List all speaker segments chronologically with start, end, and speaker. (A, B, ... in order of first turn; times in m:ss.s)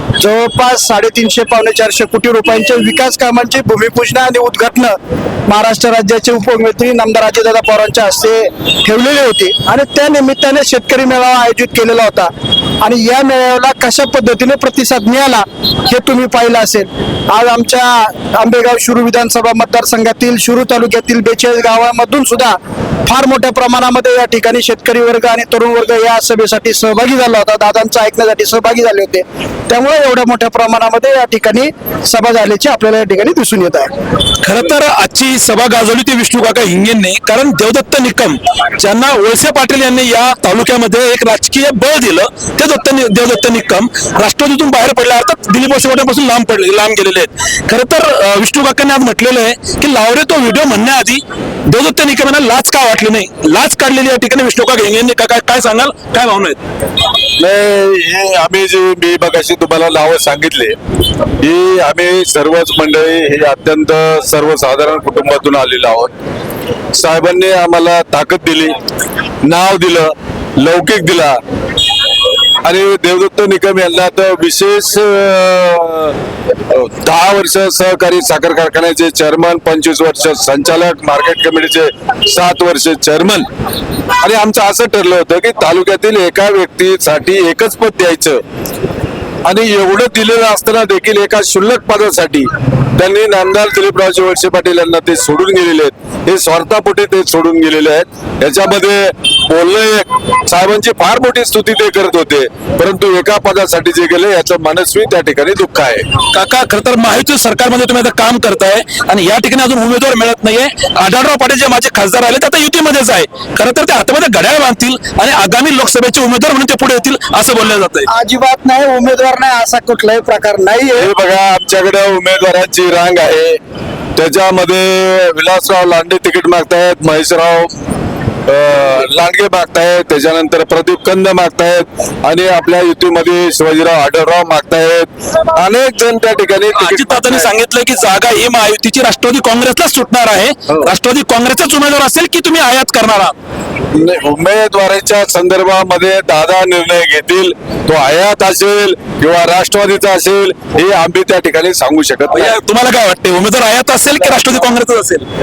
0:00.2-0:05.0 A
0:05.5-0:12.3 A
0:12.8-0:33.9 A
0:34.4-0:56.6 B
0:57.4-1:00.8 C
1:01.4-1:06.1 C
1:06.9-1:08.8 C
1:09.4-1:11.4 C
1:12.6-1:16.1 C
1:16.7-1:23.5 C
1:24.2-1:28.4 C
1:29.4-1:46.0 C
1:46.3-1:58.1 B
1:58.1-2:01.1 A
2:01.0-2:03.6 C
2:04.2-2:07.7 C
2:08.5-2:17.5 C
2:16.7-2:23.3 B
2:23.9-2:32.6 C
2:32.3-2:35.2 B